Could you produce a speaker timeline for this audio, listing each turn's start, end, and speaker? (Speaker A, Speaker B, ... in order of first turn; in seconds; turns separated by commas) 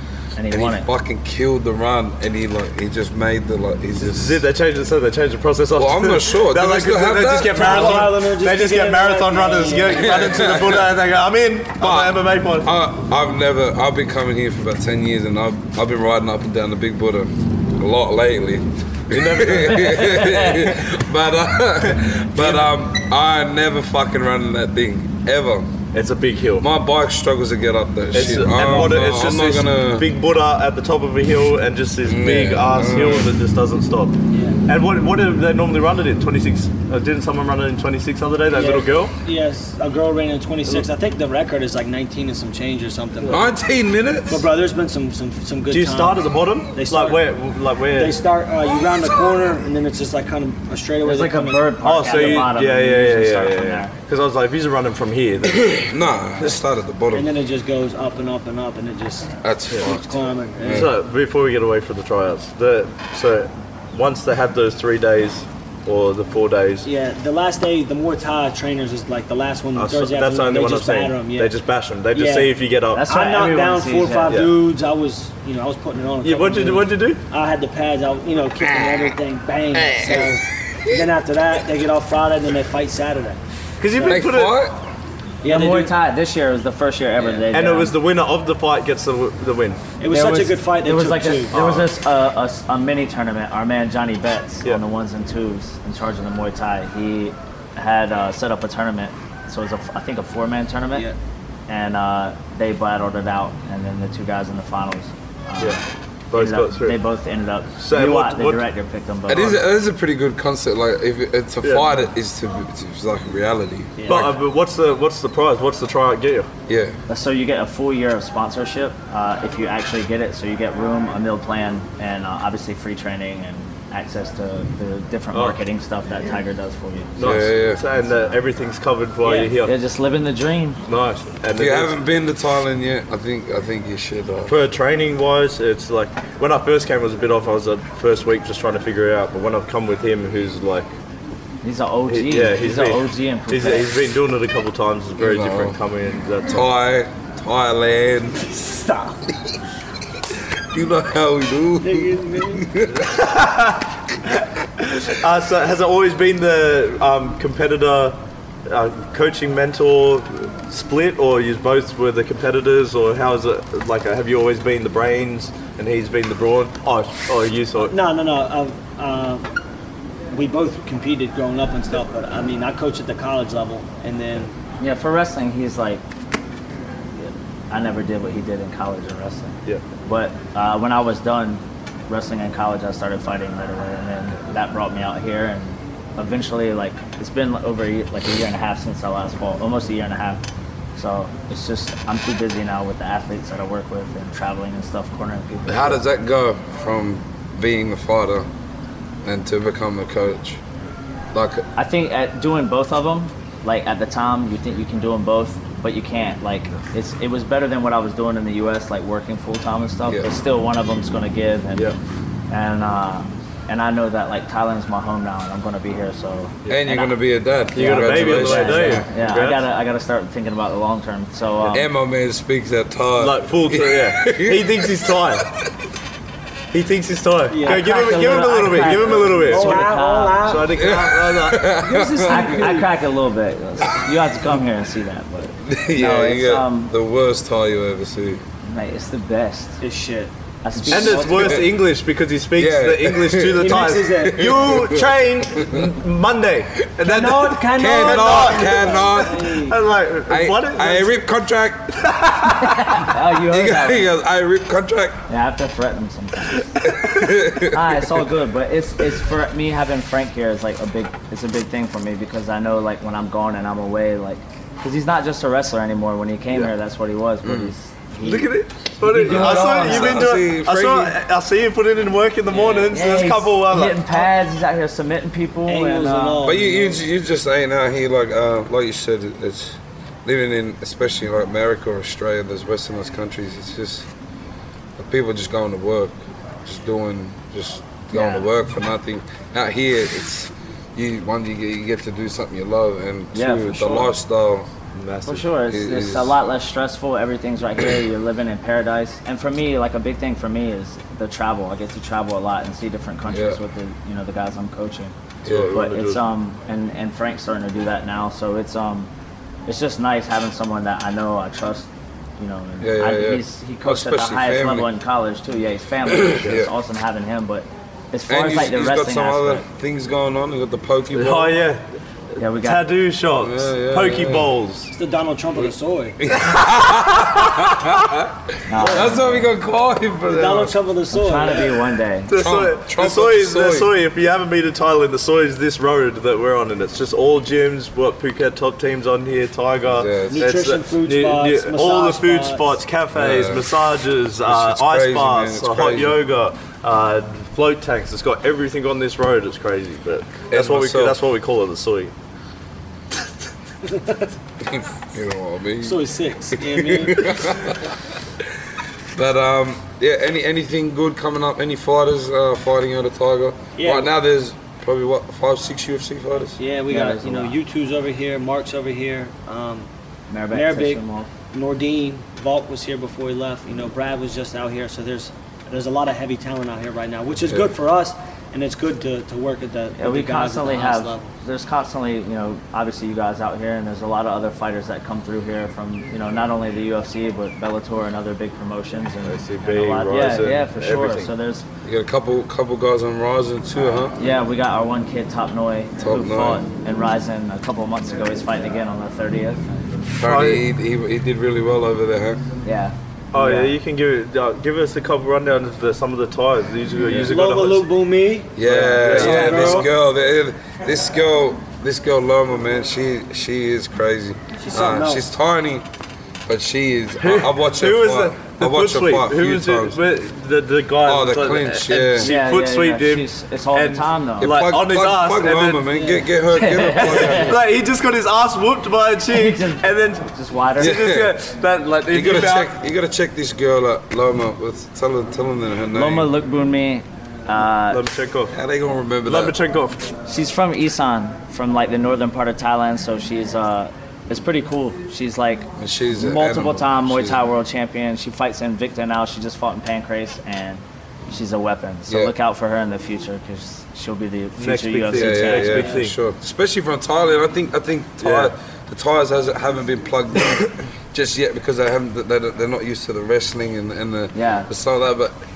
Speaker A: 0.4-0.9, Speaker B: 0.5-4.4, Speaker C: 4.0-12.7, Speaker B: 5.8-8.0, Speaker D: 7.5-10.4, Speaker B: 10.1-10.9, Speaker B: 11.8-25.7, Speaker C: 19.1-20.8, Speaker A: 19.9-20.6, Speaker C: 22.4-22.7, Speaker C: 25.9-26.7, Speaker B: 26.6-30.1, Speaker C: 28.1-34.2, Speaker B: 32.0-33.4, Speaker D: 34.3-34.6, Speaker C: 34.7-39.1, Speaker D: 38.5-43.4, Speaker B: 43.3-44.5, Speaker D: 44.3-47.2, Speaker C: 45.7-48.2, Speaker D: 47.9-52.5, Speaker A: 51.0-53.9, Speaker C: 51.8-56.6, Speaker B: 55.7-57.3, Speaker D: 57.1-60.9, Speaker B: 59.4-60.9, Speaker C: 60.6-66.9, Speaker D: 66.8-71.5, Speaker C: 69.8-73.1, Speaker D: 72.1-83.4, Speaker A: 72.9-74.4, Speaker C: 76.2-77.2, Speaker B: 79.8-81.0, Speaker C: 83.8-84.6, Speaker D: 83.9-84.2, Speaker B: 84.0-84.8, Speaker D: 85.4-86.0, Speaker A: 85.5-88.0, Speaker C: 87.5-89.8, Speaker D: 90.0-91.5, Speaker A: 90.1-101.1, Speaker C: 91.5-91.9, Speaker A: 101.7-109.7, Speaker C: 105.6-107.0, Speaker C: 107.8-108.7, Speaker B: 109.3-114.3, Speaker C: 111.6-111.9, Speaker D: 114.0-114.2, Speaker C: 114.1-116.5, Speaker B: 116.7-117.0, Speaker A: 117.1-127.1, Speaker C: 125.3-125.6, Speaker C: 127.2-129.8, Speaker B: 127.2-127.8, Speaker D: 129.2-129.5, Speaker A: 129.2-130.8, Speaker C: 130.9-131.9, Speaker B: 131.5-134.6, Speaker C: 134.5-140.9, Speaker A: 141.6-143.9, Speaker C: 142.1-146.6, Speaker B: 145.2-145.8, Speaker B: 146.5-148.5, Speaker D: 148.5-149.2, Speaker B: 150.7-153.0, Speaker D: 151.8-152.7, Speaker C: 153.0-167.9, Speaker D: 167.9-169.5, Speaker D: 170.3-174.5, Speaker A: 174.8-176.0, Speaker A: 177.2-190.4, Speaker A: 191.0-196.0, Speaker B: 195.7-198.5, Speaker B: 199.2-200.6, Speaker B: 201.3-201.7, Speaker A: 201.8-211.9, Speaker A: 212.5-217.2, Speaker B: 216.7-219.1, Speaker A: 217.7-221.9, Speaker C: 217.8-219.6, Speaker B: 221.7-225.7, Speaker C: 223.2-225.5, Speaker C: 226.7-229.9, Speaker D: 227.5-228.2, Speaker A: 227.6-230.5, Speaker D: 228.8-230.8, Speaker C: 230.4-231.7, Speaker B: 230.7-232.5, Speaker D: 231.7-232.9, Speaker A: 232.2-236.9, Speaker B: 235.7-238.4, Speaker A: 238.6-239.8, Speaker D: 239.8-240.3, Speaker A: 240.6-241.7, Speaker C: 240.9-251.1, Speaker B: 240.9-241.7, Speaker B: 242.6-245.9, Speaker D: 243.6-244.7, Speaker D: 247.0-249.8, Speaker B: 247.7-249.5, Speaker B: 250.3-255.2, Speaker A: 252.6-254.1, Speaker A: 255.3-256.7, Speaker B: 256.8-258.2, Speaker A: 257.6-270.4, Speaker B: 267.4-267.7, Speaker C: 268.2-274.1, Speaker B: 269.1-271.2, Speaker A: 272.5-276.5, Speaker D: 275.7-277.0, Speaker B: 276.4-284.1, Speaker B: 285.0-294.7, Speaker A: 288.1-288.5, Speaker A: 293.3-294.1, Speaker C: 294.9-295.5, Speaker A: 295.2-305.1, Speaker B: 295.7-296.4, Speaker B: 303.3-303.6, Speaker B: 305.4-305.7, Speaker C: 305.4-306.2, Speaker A: 305.7-309.1, Speaker A: 309.7-319.7, Speaker B: 312.8-314.9, Speaker B: 316.1-316.7, Speaker B: 318.3-321.5, Speaker C: 321.1-321.8, Speaker C: 322.4-324.9, Speaker A: 322.4-322.9, Speaker B: 323.4-324.5, Speaker D: 324.9-326.2, Speaker B: 326.2-330.8, Speaker A: 328.7-329.5, Speaker D: 328.8-329.2, Speaker D: 330.3-331.7, Speaker A: 331.1-332.3, Speaker C: 332.3-352.1, Speaker B: 332.3-333.9, Speaker B: 339.9-340.5, Speaker D: 340.3-342.7, Speaker B: 343.1-343.7, Speaker B: 344.4-346.2, Speaker B: 350.5-351.2, Speaker D: 353.9-354.3, Speaker B: 354.6-356.0, Speaker D: 355.8-357.7, Speaker B: 356.5-357.9, Speaker B: 359.1-366.6, Speaker D: 363.8-364.1, Speaker D: 366.6-369.9, Speaker A: 366.9-367.6, Speaker A: 370.3-371.3, Speaker D: 370.5-381.3, Speaker A: 380.0-391.7, Speaker C: 389.2-391.3, Speaker B: 391.9-394.2, Speaker A: 393.9-400.0, Speaker B: 396.0-396.6, Speaker B: 400.2-402.4, Speaker C: 400.2-400.6, Speaker A: 402.6-403.7, Speaker C: 403.3-407.9, Speaker D: 407.3-409.9, Speaker B: 408.6-415.9, Speaker C: 408.7-409.9, Speaker D: 414.6-415.2, Speaker B: 416.5-420.0, Speaker C: 417.2-426.0, Speaker B: 421.0-422.3, Speaker A: 422.2-424.6, Speaker B: 424.4-427.6, Speaker A: 425.9-427.6, Speaker C: 426.9-432.7, Speaker A: 429.3-431.1, Speaker B: 430.8-431.3, Speaker B: 432.1-436.3, Speaker A: 435.9-438.0, Speaker C: 437.9-438.5, Speaker B: 438.5-439.6, Speaker C: 439.2-440.0, Speaker A: 440.3-456.0, Speaker B: 445.8-447.4, Speaker B: 452.1-452.3, Speaker C: 454.6-456.2, Speaker B: 455.1-465.4, Speaker C: 458.2-458.5, Speaker A: 464.3-464.7